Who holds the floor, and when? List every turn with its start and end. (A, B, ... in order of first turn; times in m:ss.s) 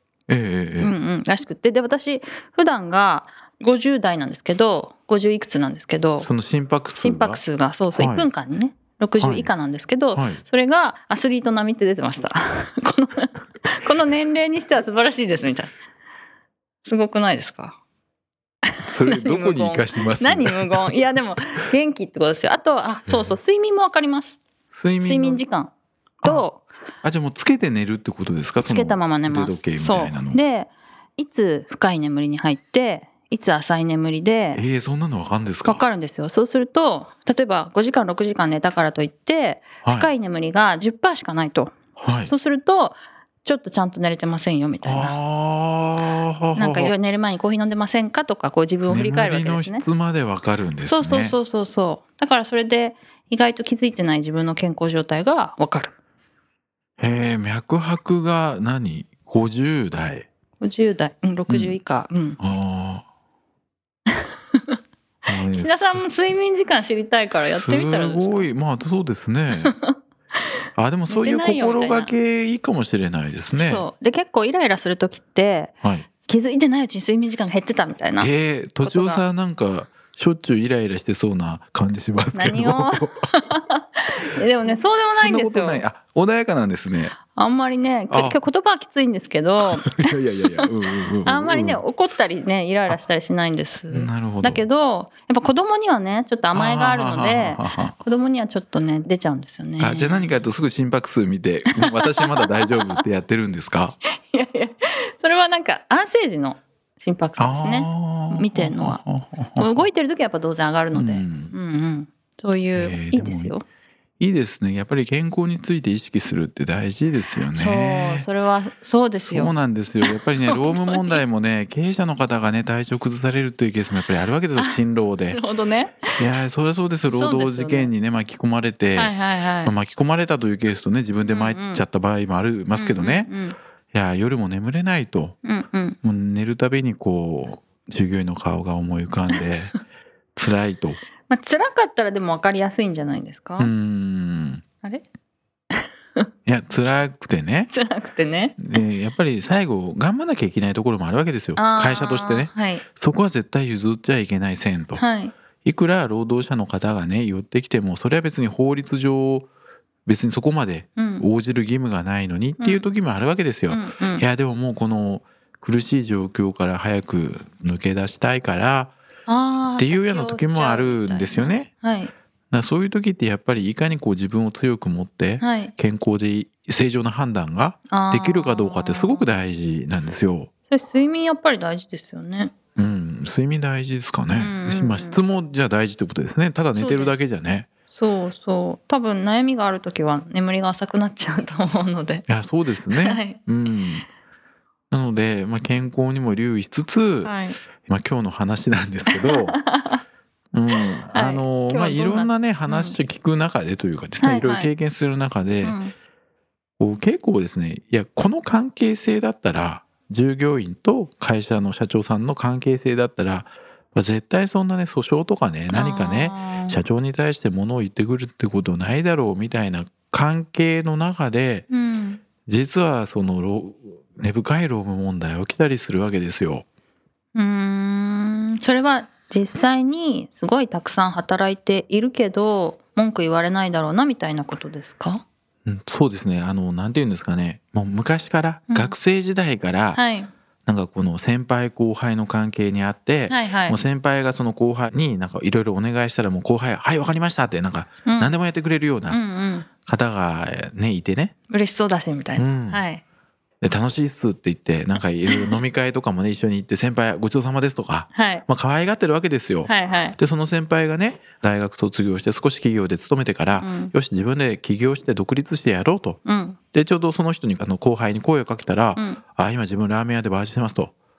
0:00.3-0:00.9 A
0:00.8-0:06.3 B
0:06.2-0:07.4 A
0:07.0-0:15.8 B
0:07.9-0:08.3 A
0:09.2-0:09.5 A
0:10.1-0:10.4 A
0:16.8-0:17.8 B
0:18.8-0:24.4 B
0:18.9-0:20.9 A
0:23.1-0:23.4 A
0:24.7-0:25.4 A
0:25.0-0:26.7 B
0:27.0-0:30.4 A
0:28.6-0:34.6 B
0:34.5-0:35.8 A
0:35.6-0:45.2 B
0:39.8-0:40.1 A
0:42.0-0:42.3 A
0:44.8-0:46.9 A
0:46.5-0:49.8 B
0:48.9-0:51.4 A
0:50.8-0:55.9 B
0:57.0-1:00.3 A
1:00.6-1:02.4 B
1:01.5-1:01.8 A
1:02.4-1:03.0 A
1:05.2-1:06.0 A
1:05.5-1:08.5 B
1:07.4-1:09.7 A
1:09.6-1:09.9 B
1:10.8-1:13.8 A
1:11.1-1:12.1 B
1:13.5-1:19.2 B
1:18.2-1:23.3 A
1:22.3-1:25.8 B
1:25.2-1:27.2 A
1:27.3-1:30.7 B
1:28.1-1:28.4 A
1:29.6-1:31.8 A
1:31.2-1:40.4 B
1:33.9-1:34.6 A
1:36.5-1:37.9 A
1:39.8-1:44.0 A
1:42.4-1:42.8 B
1:44.3-1:49.0 B
1:47.4-1:49.8 A
1:49.6-1:53.6 B
1:50.9-1:51.5 A
1:52.8-1:53.5 A
1:54.2-1:58.3 A
1:57.5-2:01.2 B
1:59.2-2:05.4 A
2:05.3-2:06.2 B
2:06.2-2:09.1 A
2:07.1-2:07.9 B
2:09.0-2:09.7 B
2:09.6-2:13.3 A
2:11.3-2:11.8 B
2:12.8-2:13.6 B
2:13.9-2:15.4 A
2:15.4-2:16.0 B
2:16.0-2:19.7 A
2:20.3-2:21.0 A
2:21.3-2:23.7 B
2:23.6-2:24.6 A
2:25.7-2:26.3 B
2:26.5-2:27.7 A
2:27.7-2:28.8 B
2:28.6-2:35.0 A
2:31.6-2:32.8 B
2:35.0-2:35.3 B
2:35.6-2:39.5 A
2:40.0-2:49.0 A
2:41.0-2:41.3 B
2:42.6-2:42.8 B
2:43.7-2:44.2 B
2:49.3-2:52.1 B
2:49.8-2:51.7 A
2:52.5-3:00.5 A
2:55.4-2:55.7 B
2:57.9-2:59.3 B
3:00.7-3:02.5 B
3:02.8-3:07.7 A
3:04.3-3:05.2 B
3:06.7-3:07.2 B
3:07.9-3:12.2 B
3:12.3-3:14.1 A
3:12.9-3:13.4 B
3:14.9-3:19.6 A
3:17.2-3:17.6 B
3:19.1-3:20.0 B
3:20.5-3:25.8 A
3:21.1-3:23.0 B
3:24.2-3:24.7 B
3:25.6-3:25.9 B
3:26.8-3:41.7 A
3:35.7-3:36.8 B
3:41.7-3:42.2 B
3:42.5-3:46.6 A
3:47.3-3:55.2 B
3:55.7-4:00.0 A
3:59.9-4:00.3 B
4:00.7-4:09.2 A
4:03.3-4:03.8 B
4:08.0-4:08.3 B
4:09.1-4:09.7 B
4:09.8-4:11.3 A
4:11.5-4:13.0 B
4:12.4-4:12.8 A
4:13.6-4:26.2 A
4:15.3-4:15.6 B
4:18.1-4:18.4 B
4:19.6-4:20.2 B
4:23.6-4:23.9 B
4:26.2-4:26.6 B
4:26.7-4:30.9 A
4:29.0-4:29.2 B